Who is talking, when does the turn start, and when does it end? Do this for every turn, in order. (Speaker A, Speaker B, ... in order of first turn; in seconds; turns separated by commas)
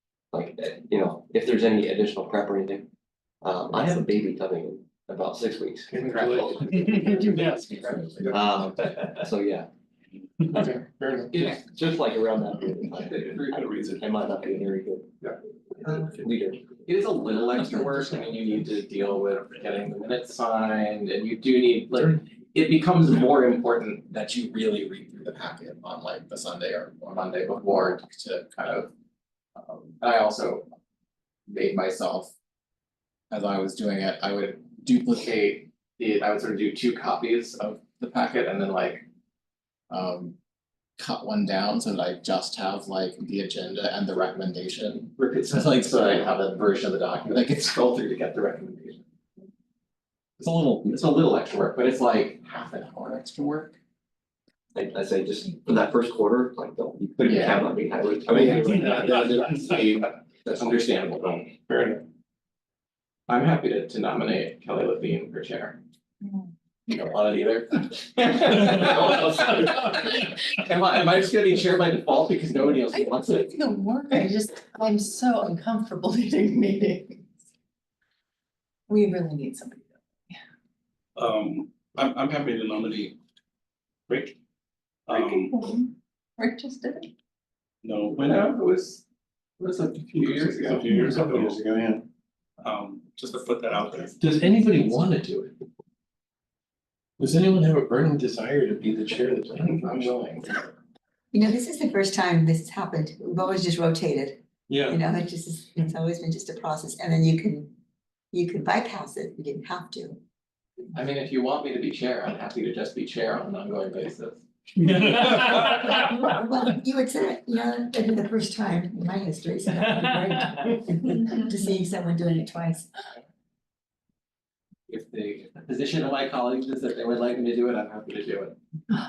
Speaker A: 0.3-2.9, Speaker A: 3.4-7.3, Speaker B: 5.9-8.4, Speaker C: 6.0-8.1, Speaker A: 8.3-9.7, Speaker B: 10.5-11.5, Speaker C: 11.3-11.6, Speaker A: 11.4-16.8, Speaker C: 13.0-13.6, Speaker C: 16.9-28.9, Speaker C: 29.6-30.7, Speaker C: 31.5-32.3, Speaker C: 33.3-39.0, Speaker C: 39.9-40.4, Speaker C: 41.0-49.0, Speaker A: 50.4-50.8, Speaker C: 50.7-53.8, Speaker A: 54.8-59.3, Speaker C: 57.2-57.7, Speaker C: 58.3-61.6, Speaker C: 63.3-65.8, Speaker D: 66.2-66.5, Speaker C: 66.9-73.5, Speaker D: 72.9-77.3, Speaker D: 78.9-80.4, Speaker E: 81.2-83.2, Speaker E: 84.1-84.4, Speaker E: 85.1-85.5, Speaker D: 85.1-87.1, Speaker E: 87.8-88.5, Speaker C: 88.2-89.0, Speaker C: 89.6-91.0, Speaker E: 90.2-91.6, Speaker F: 90.9-92.0, Speaker E: 92.6-94.3, Speaker F: 97.2-99.6, Speaker C: 99.6-100.5, Speaker G: 101.3-107.7, Speaker G: 108.3-110.2, Speaker C: 110.9-114.4, Speaker G: 114.9-122.9, Speaker C: 124.9-128.6